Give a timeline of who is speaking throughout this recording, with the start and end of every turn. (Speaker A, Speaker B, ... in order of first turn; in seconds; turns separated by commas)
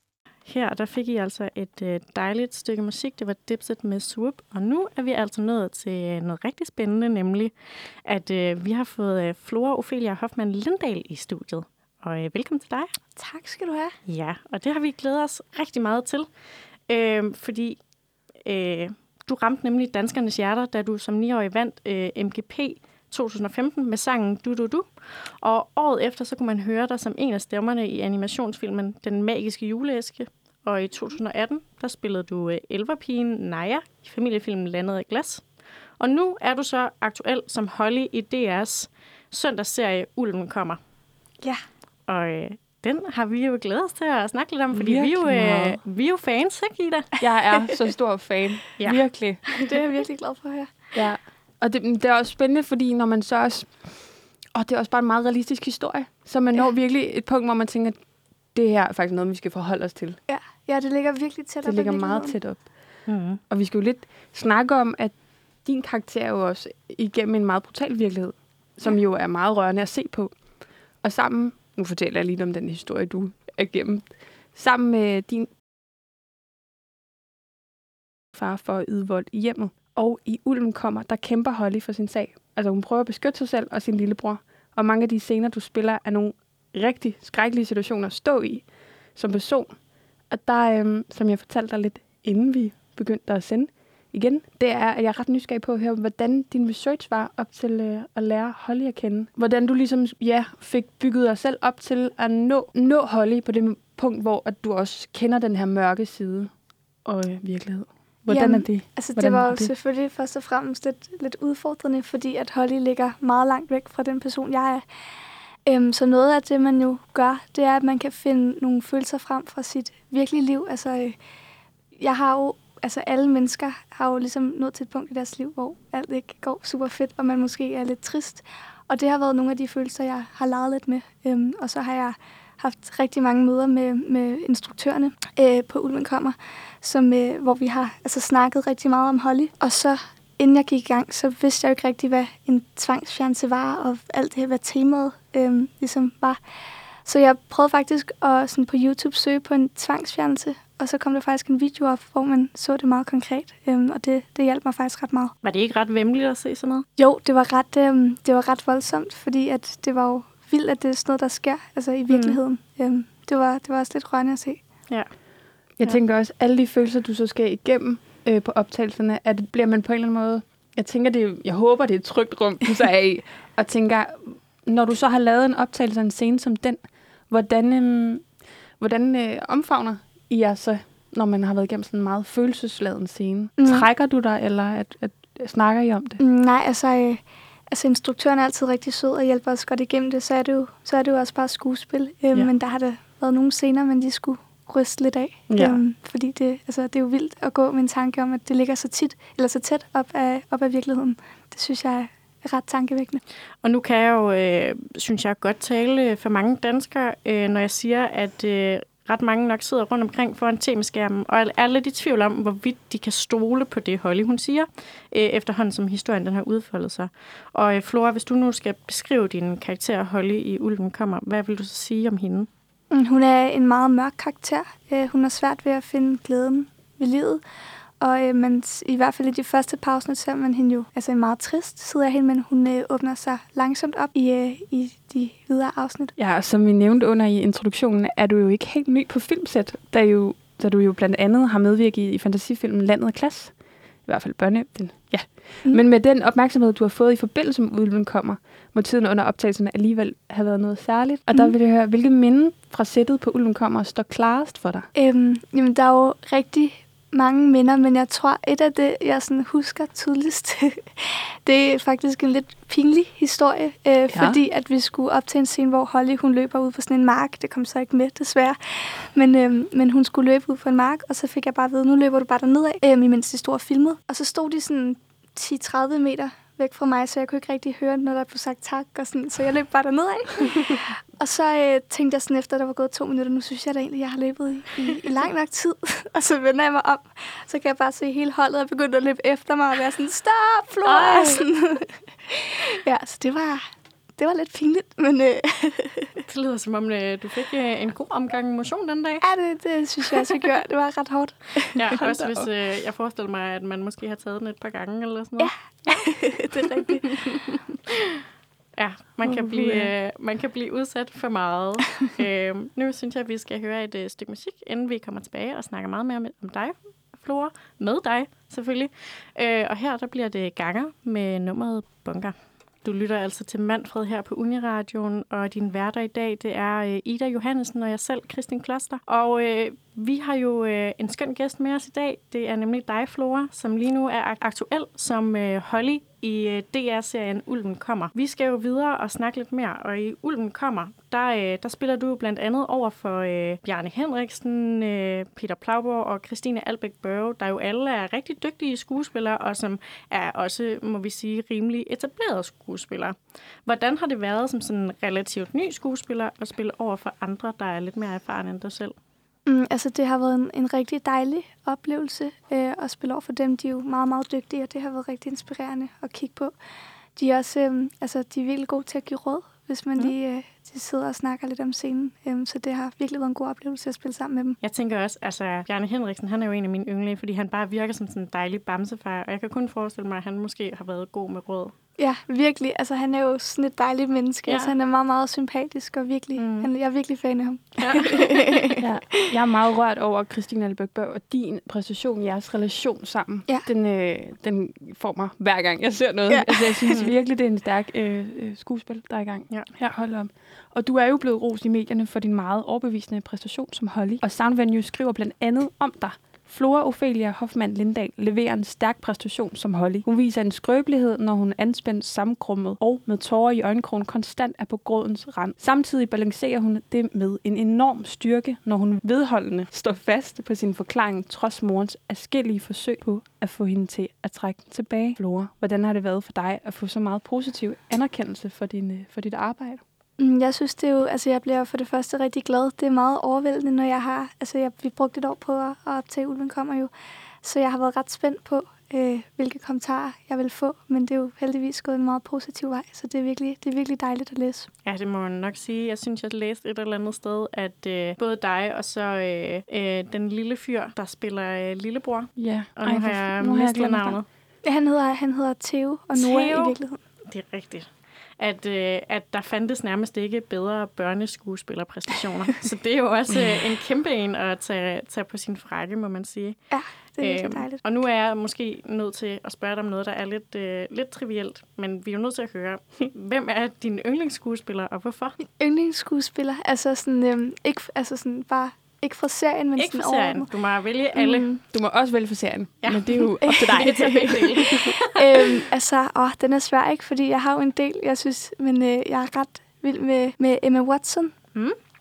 Speaker A: 0.5-7.5, Speaker A: 8.1-12.9, Speaker B: 13.2-13.9, Speaker A: 14.1-16.3, Speaker A: 16.9-17.8, Speaker A: 18.5-35.4, Speaker A: 36.0-40.8, Speaker A: 42.1-47.2, Speaker C: 44.7-45.8, Speaker C: 47.2-49.4, Speaker B: 47.5-47.9, Speaker A: 48.8-49.6, Speaker B: 49.6-50.7, Speaker C: 50.9-53.8, Speaker C: 54.5-58.0, Speaker C: 58.5-60.2, Speaker B: 60.3-62.4, Speaker C: 61.6-62.6, Speaker A: 63.1-63.4, Speaker C: 63.5-70.3, Speaker C: 71.0-75.5, Speaker C: 78.3-88.7, Speaker C: 89.2-89.7, Speaker C: 90.3-106.5, Speaker C: 107.0-109.7, Speaker B: 108.3-114.8, Speaker B: 115.7-121.2, Speaker B: 121.9-146.4, Speaker B: 147.0-155.3, Speaker A: 155.4-156.8, Speaker B: 157.0-164.6, Speaker A: 162.1-162.4, Speaker C: 165.8-178.3, Speaker C: 178.8-186.2, Speaker B: 183.6-183.9, Speaker B: 186.2-203.2, Speaker C: 195.5-195.8, Speaker A: 203.6-222.5, Speaker B: 222.9-227.4, Speaker B: 228.0-236.1, Speaker C: 236.2-243.5, Speaker C: 244.1-254.9, Speaker B: 254.9-293.6, Speaker C: 264.1-264.4, Speaker A: 290.9-291.5, Speaker B: 294.2-296.2, Speaker A: 296.3-299.2, Speaker B: 299.2-301.9, Speaker A: 301.8-305.5, Speaker C: 302.0-302.5, Speaker B: 305.4-307.1, Speaker A: 306.9-307.6, Speaker A: 308.8-358.9, Speaker C: 309.3-309.9, Speaker B: 359.5-366.6, Speaker B: 367.1-374.6, Speaker A: 374.6-381.7, Speaker B: 382.0-389.2, Speaker A: 384.5-384.7, Speaker A: 386.4-386.7, Speaker A: 387.8-388.8, Speaker C: 388.8-429.8, Speaker B: 396.3-397.0, Speaker B: 430.2-436.9, Speaker B: 437.4-444.7, Speaker A: 444.9-454.3, Speaker C: 452.4-454.2, Speaker B: 454.6-457.0, Speaker A: 456.1-456.8, Speaker A: 457.3-466.6, Speaker B: 466.7-467.8, Speaker A: 467.2-475.4, Speaker B: 475.4-480.5, Speaker A: 479.8-481.6, Speaker B: 481.1-481.6, Speaker C: 481.7-484.7, Speaker A: 482.8-485.6, Speaker B: 483.4-491.3